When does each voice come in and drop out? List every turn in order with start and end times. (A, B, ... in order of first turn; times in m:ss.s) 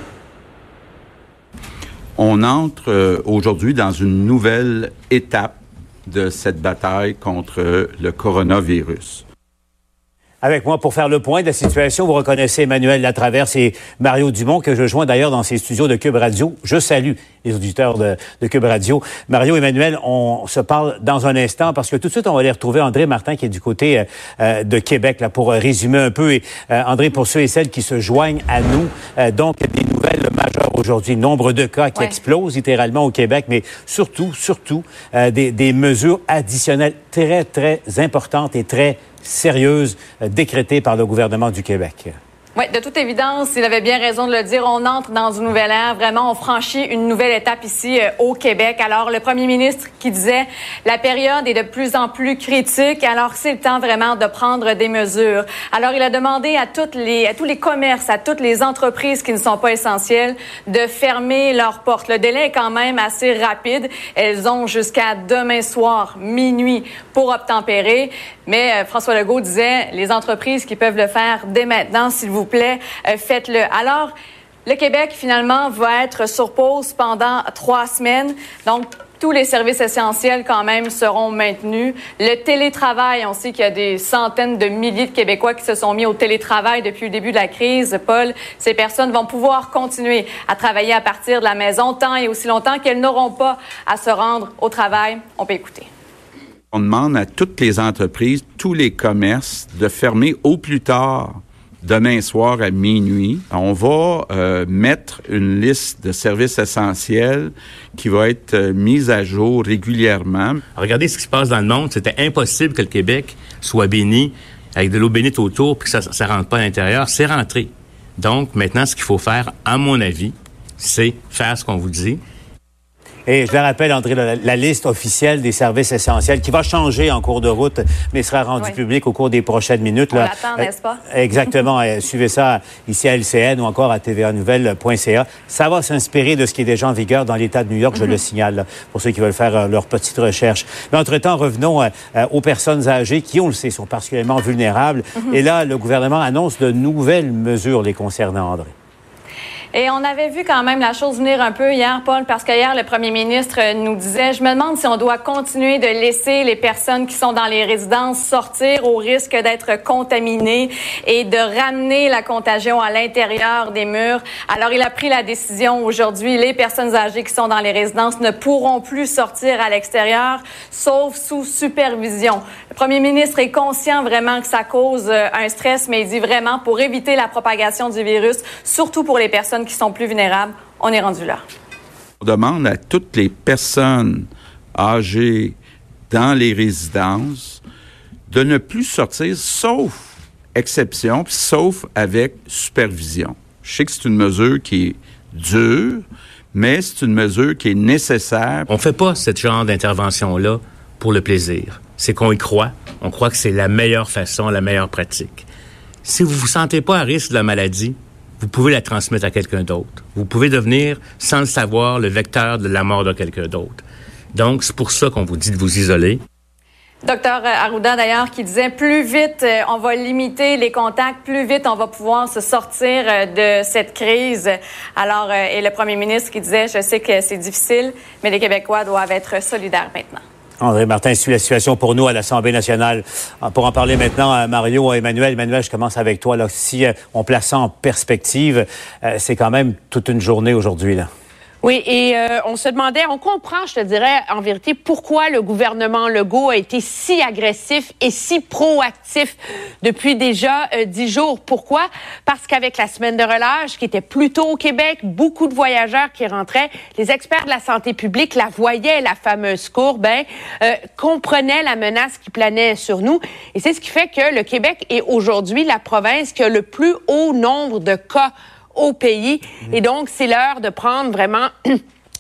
0:02.2-0:09.2 A
0:10.4-0:42.2 B
0:42.6-1:14.1 C
1:14.7-1:35.9 C
1:36.7-1:50.6 A
1:50.8-2:02.2 D
2:03.3-2:28.7 B
2:10.1-2:11.0 C
2:29.7-3:01.4 C
3:02.2-3:05.6 A
3:06.1-3:07.6 A
3:08.3-3:18.7 A
3:18.7-3:25.5 D
3:26.0-3:36.2 D
3:37.0-3:50.2 C
3:50.6-4:01.1 B
4:01.6-4:31.8 E